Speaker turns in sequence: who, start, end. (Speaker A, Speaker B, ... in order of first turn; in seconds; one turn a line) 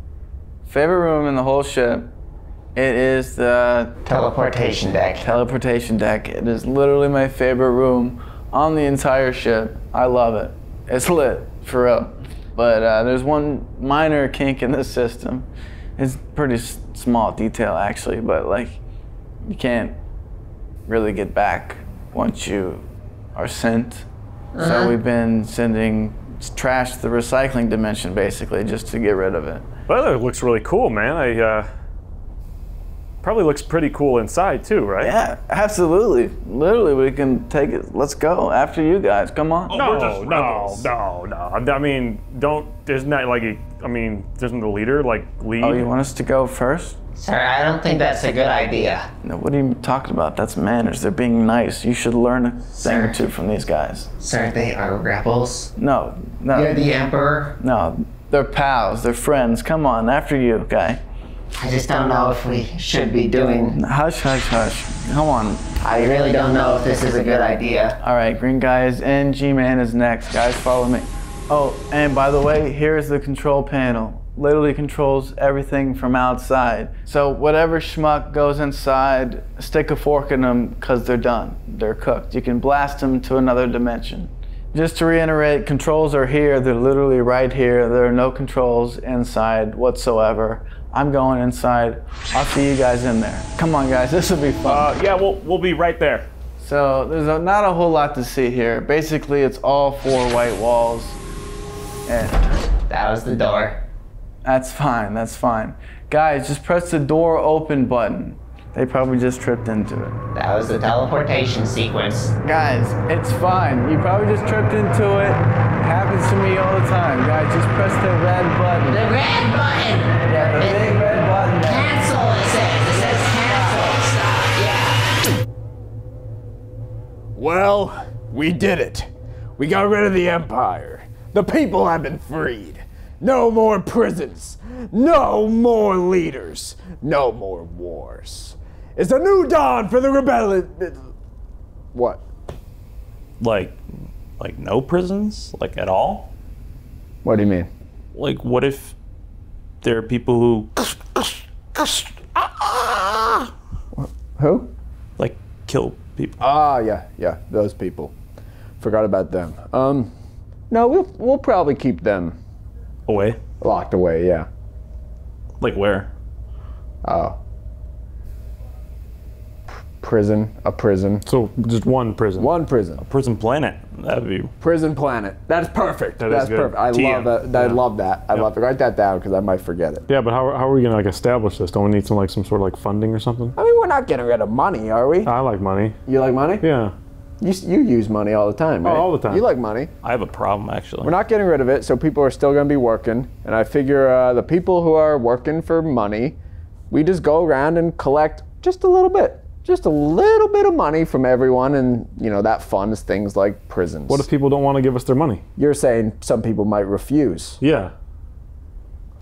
Speaker A: 0.7-2.1
Speaker A: 2.7-4.0
Speaker B: 4.1-5.2
Speaker A: 5.2-18.8
Speaker A: 19.4-20.0
Speaker A: 20.9-24.1
Speaker B: 24.6-24.9
Speaker A: 24.6-29.7
Speaker C: 29.9-31.7
Speaker C: 33.2-35.1
Speaker A: 35.0-39.8
Speaker D: 39.7-40.9
Speaker C: 39.7-45.9
Speaker A: 45.6-47.0
Speaker B: 47.2-49.1
Speaker A: 49.2-54.1
Speaker B: 52.8-53.2
Speaker B: 54.2-55.7
Speaker A: 55.8-56.9
Speaker B: 56.5-57.5
Speaker A: 57.6-61.0
Speaker B: 61.6-63.8
Speaker A: 63.7-65.7
Speaker B: 65.8-67.9
Speaker A: 68.0-94.9
Speaker D: 94.7-96.3
Speaker A: 96.6-101.2
Speaker A: 102.1-102.7
Speaker B: 102.9-103.8
Speaker A: 104.4-110.2
Speaker B: 110.3-112.3
Speaker A: 112.4-119.2
Speaker B: 118.9-120.8
Speaker A: 120.2-122.1
Speaker B: 121.7-125.0
Speaker A: 122.9-124.0
Speaker E: 127.4-141.1
Speaker E: 141.9-142.2
Speaker D: 143.4-143.8
Speaker D: 144.4-146.3
Speaker E: 147.2-147.7
Speaker D: 148.1-148.9
Speaker D: 149.8-153.4
Speaker E: 153.9-154.7
Speaker D: 155.2-156.4
Speaker E: 156.4-158.1
Speaker E: 158.8-160.1
Speaker E: 160.7-162.4
Speaker D: 163.1-163.4
Speaker E: 163.6-164.5
Speaker D: 165.6-166.1
Speaker E: 167.0-167.4
Speaker E: 169.7-171.2
Speaker C: 171.3-172.5
Speaker E: 172.4-173.0
Speaker D: 173.0-174.5
Speaker E: 174.6-180.0
Speaker C: 176.2-177.8
Speaker D: 177.0-177.3
Speaker C: 180.1-183.5
Speaker E: 183.6-185.3
Speaker C: 185.3-186.0
Speaker E: 186.1-186.7
Speaker C: 186.6-186.9
Speaker E: 187.4-189.9
Speaker C: 188.8-189.4
Speaker D: 190.0-191.1
Speaker E: 191.0-196.4
Speaker E: 196.9-204.3
Speaker C: 204.1-205.4
Speaker E: 205.6-207.6
Speaker C: 207.6-207.9